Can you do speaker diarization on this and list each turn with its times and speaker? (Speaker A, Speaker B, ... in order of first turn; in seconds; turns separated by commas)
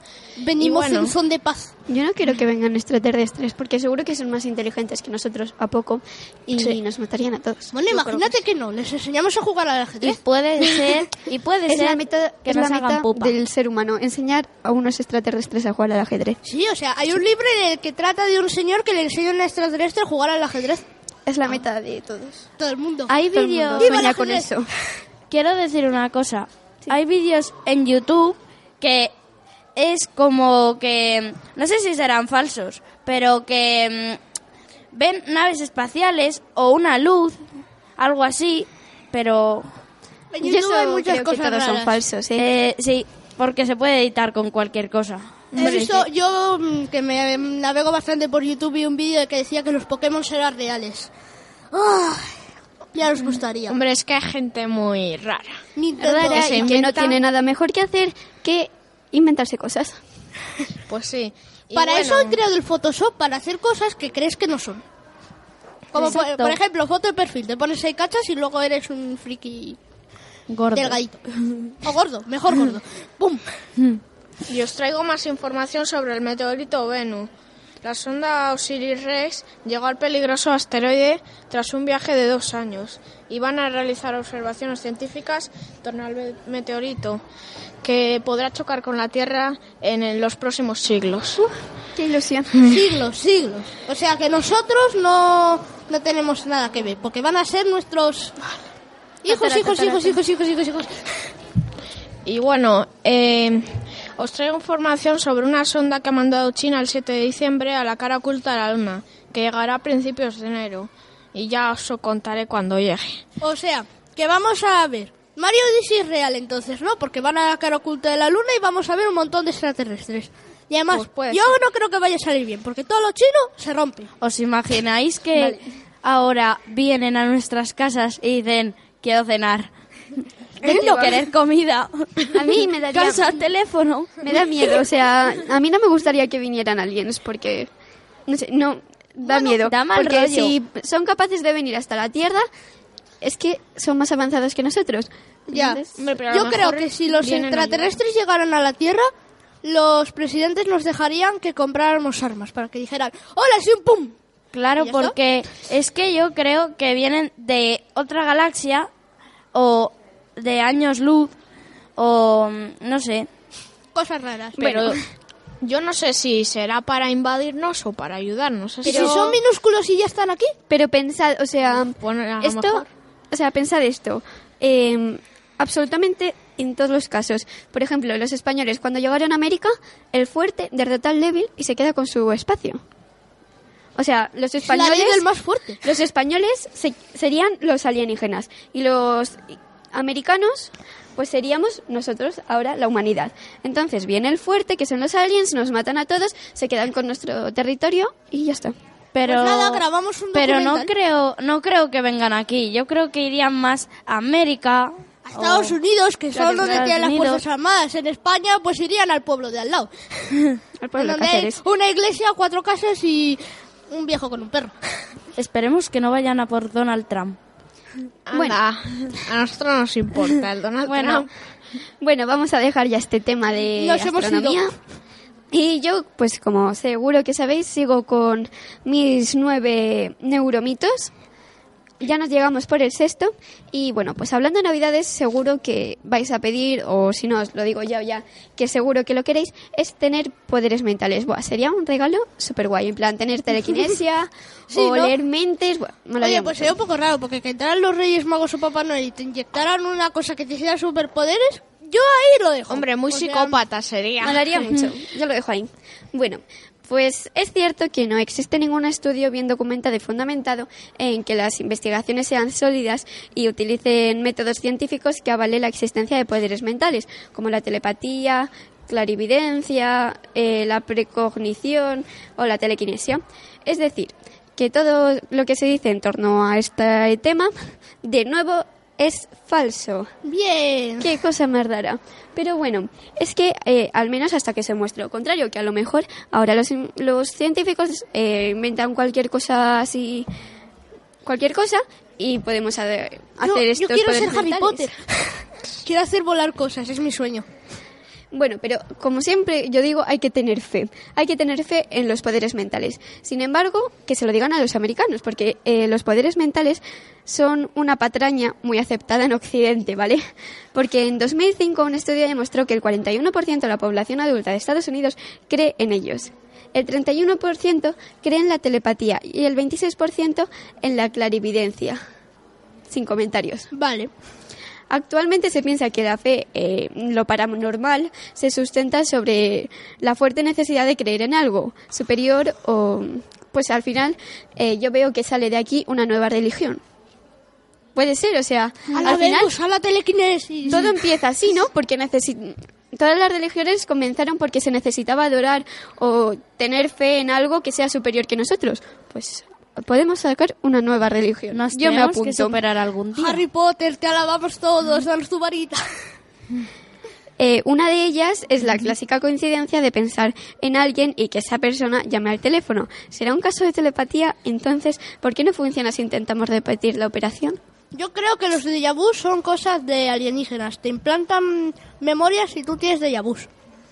Speaker A: 0.4-1.7, Speaker B: 0.6-1.1, Speaker C: 1.9-8.3, Speaker A: 7.7-10.2, Speaker D: 10.0-13.3, Speaker C: 11.7-16.4, Speaker A: 16.4-20.8, Speaker C: 21.3-22.4, Speaker A: 22.6-23.1, Speaker C: 23.1-24.7, Speaker D: 23.1-23.9, Speaker A: 23.8-24.6, Speaker D: 25.3-29.1, Speaker D: 29.7-34.2, Speaker D: 34.9-37.4, Speaker D: 38.0-39.7, Speaker A: 40.3-42.0, Speaker C: 40.4-42.5, Speaker D: 42.3-45.3, Speaker B: 45.5-46.1, Speaker A: 45.5-51.1, Speaker A: 51.7-53.8, Speaker B: 53.7-55.6, Speaker A: 55.8-56.6, Speaker C: 56.0-60.0, Speaker B: 56.2-57.2, Speaker B: 60.9-62.4, Speaker A: 61.7-64.8, Speaker A: 65.9-69.8, Speaker D: 66.0-66.6, Speaker D: 70.5-71.0, Speaker A: 70.7-71.2, Speaker A: 71.8-73.5, Speaker B: 74.5-77.3, Speaker B: 77.8-87.2, Speaker B: 87.8-91.4, Speaker C: 91.4-92.6, Speaker B: 92.5-92.8, Speaker A: 92.7-98.4, Speaker A: 99.2-101.1, Speaker C: 99.3-100.2, Speaker B: 102.2-103.7, Speaker B: 104.2-113.2, Speaker A: 113.4-124.1, Speaker B: 120.9-121.5, Speaker D: 124.2-129.7, Speaker C: 125.3-125.6, Speaker C: 130.6-131.2, Speaker D: 130.6-134.2, Speaker C: 132.3-133.4, Speaker C: 134.2-137.7, Speaker C: 138.3-142.5, Speaker D: 139.4-140.5, Speaker C: 143.2-145.9, Speaker A: 145.5-149.1, Speaker B: 145.9-148.0, Speaker A: 149.6-154.1, Speaker D: 154.5-158.9, Speaker A: 154.8-155.1, Speaker D: 159.5-161.3, Speaker D: 161.9-163.3, Speaker A: 163.9-164.7, Speaker C: 164.6-165.0, Speaker B: 164.6-165.0, Speaker B: 165.6-169.4, Speaker A: 168.8-170.5, Speaker C: 168.9-169.2, Speaker C: 170.7-182.8, Speaker B: 172.0-172.9, Speaker C: 183.9-185.3, Speaker A: 184.7-185.8, Speaker C: 185.8-198.7, Speaker D: 199.1-205.8, Speaker A: 199.2-200.9, Speaker A: 205.3-210.3, Speaker D: 206.3-207.4, Speaker C: 206.4-206.9, Speaker C: 210.8-211.6, Speaker A: 211.0-214.7, Speaker D: 215.3-217.4, Speaker B: 218.3-221.3, Speaker C: 218.3-218.6, Speaker D: 220.8-221.3, Speaker C: 222.0-224.7, Speaker A: 223.8-224.6, Speaker C: 225.5-231.1, Speaker C: 232.0-246.8, Speaker A: 244.7-245.2, Speaker A: 246.2-253.6, Speaker B: 252.7-254.7, Speaker C: 254.2-277.5, Speaker C: 278.0-280.1, Speaker A: 280.2-281.1, Speaker C: 281.0-290.3, Speaker C: 291.2-294.9, Speaker A: 293.4-295.0, Speaker A: 295.8-297.4, Speaker C: 298.3-310.2, Speaker C: 310.7-322.0, Speaker C: 322.9-323.7, Speaker A: 323.7-324.1, Speaker C: 324.9-336.8, Speaker C: 337.9-339.5, Speaker A: 338.9-341.0, Speaker C: 340.7-352.6, Speaker D: 351.5-353.4, Speaker A: 353.1-355.8, Speaker C: 357.4-367.6, Speaker A: 367.9-373.5